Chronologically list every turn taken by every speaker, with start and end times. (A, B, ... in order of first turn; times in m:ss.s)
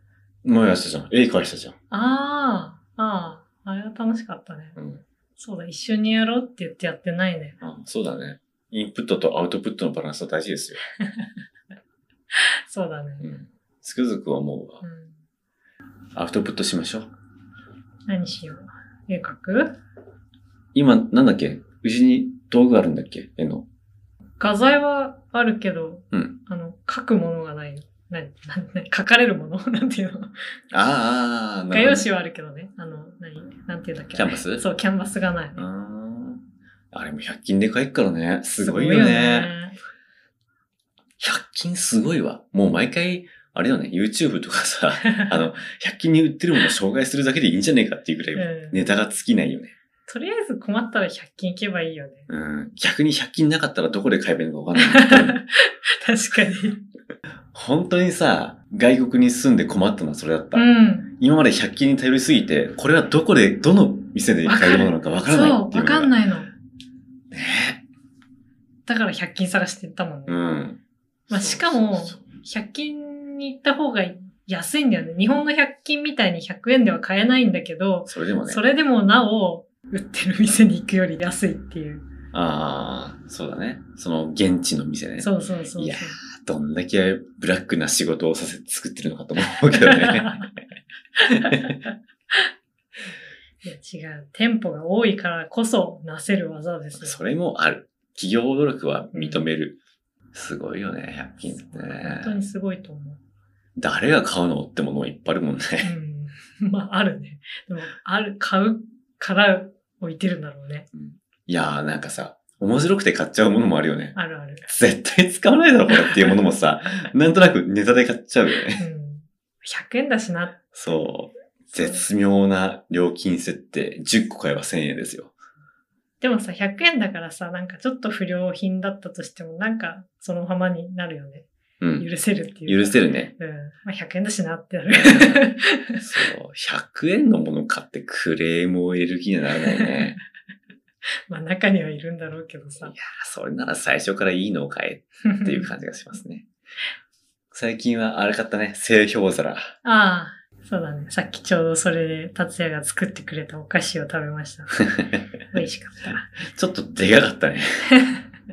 0:00.4-0:01.8 A
0:01.9-0:04.8 B
0:04.8-0:05.0 A
0:05.4-0:07.6 B
0:07.6-0:10.8 A
0:11.0-0:11.3 B
0:12.3-0:13.3 B
0:13.2-0:14.8 A
0:14.8-0:15.2 B
0:16.1-0:17.1 A
0:18.1-0:19.8 B
0:20.7-0:23.6 A
0:24.4-0:30.3 B
0:26.1-0:26.4 A
0:30.7-0:32.0 A
0:31.7-0:35.6 B
0:34.1-0:34.6 A
0:35.6-0:39.5 A
0:38.6-0:39.8 B
0:41.2-0:49.8 A
0:45.0-0:45.5 B
0:48.4-0:49.0 B
0:50.1-0:52.3 B
0:52.3-0:55.4 A
0:54.8-0:56.8 B
0:57.5-1:00.6 A
1:00.5-1:01.1 B
1:01.2-1:06.1 A
1:04.4-1:06.5 B
1:07.3-1:07.8 A
1:08.8-1:10.4 B
1:10.3-1:12.2 A
1:11.3-1:22.0 B
1:18.1-1:18.6 A
1:22.3-1:30.5 A
1:25.2-1:26.2 B
1:29.7-1:30.5 B
1:31.3-1:31.7 A
1:31.4-1:31.7 B
1:33.6-1:37.2 B
1:37.0-1:39.8 A
1:39.1-1:39.5 B
1:40.3-1:42.4 A
1:41.4-1:43.2 B
1:43.8-1:45.9 A
1:45.8-1:50.9 B
1:50.9-1:54.2 A
1:54.1-1:54.7 B
1:54.7-1:58.8 A
1:55.9-1:56.3 B
1:58.8-2:00.6 B
2:00.7-2:05.3 A
2:01.7-2:02.0 B
2:06.2-2:16.0 B
2:11.8-2:12.1 A
2:12.7-2:13.3 A
2:14.9-2:20.2 A
2:21.3-2:22.9 B
2:22.8-2:26.4 A
2:25.2-2:25.7 B
2:27.5-2:29.6 A
2:29.8-2:34.9 B
2:35.5-2:36.4 B
2:36.4-2:37.8 A